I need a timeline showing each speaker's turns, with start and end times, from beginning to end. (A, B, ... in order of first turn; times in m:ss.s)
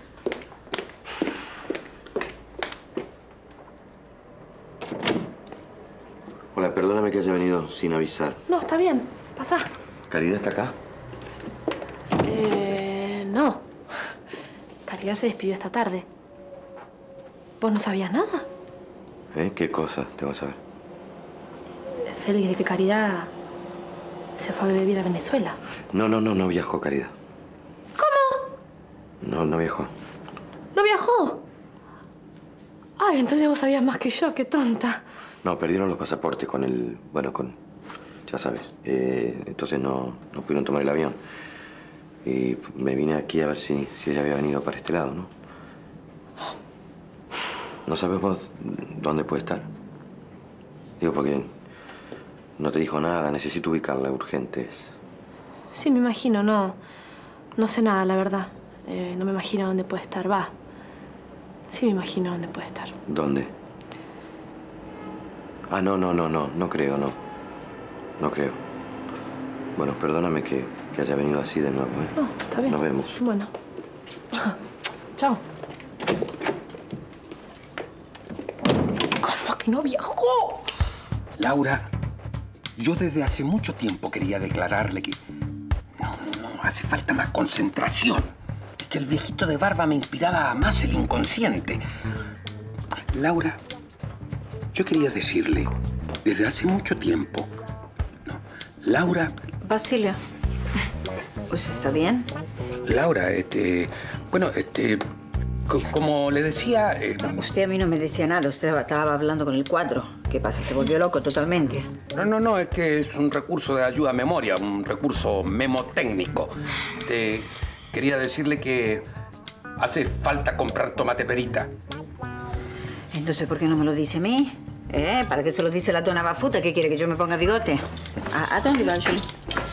0:06.5-0:08.4 A
0:08.5-0:09.7 B
0:10.1-0:10.7 A
0:12.2-0:13.6 B
0:14.8-0:16.0 B
0:17.6-0:18.5 B
0:19.3-0:20.6 A
0:22.0-0:23.3 B
0:24.4-0:25.6 B
0:25.9-0:27.1 A
0:28.0-0:28.4 B
0:29.2-0:29.9 A
0:30.7-0:31.4 B
0:33.0-0:35.0 B
0:35.4-0:37.5 A
0:38.3-0:41.2 A
0:42.2-0:45.3 A
0:47.9-0:49.7 A
0:51.0-0:51.5 A
0:52.6-0:54.9 A
0:55.7-0:56.8 B
0:57.6-1:00.5 B
1:01.7-1:02.9 B
1:03.1-1:03.5 A
1:05.7-1:07.2 A
1:08.2-1:08.6 A
1:09.8-1:12.1 A
1:12.2-1:13.5 B
1:12.6-1:13.2 A
1:15.2-1:15.4 B
1:19.1-1:20.6 B
1:21.4-1:21.9 C
1:22.8-1:25.2 C
1:26.0-1:31.8 C
1:33.1-1:33.6 C
1:34.7-1:35.7 C
1:36.2-1:37.5 C
1:38.3-1:39.3 C
1:39.6-1:40.2 D
1:41.5-1:42.3 D
1:42.8-1:45.0 C
1:45.7-1:47.3 C
1:47.2-1:51.9 D
1:52.1-1:56.5 C
1:57.0-1:59.0 C
1:59.8-2:01.7 C
2:03.1-2:09.3 D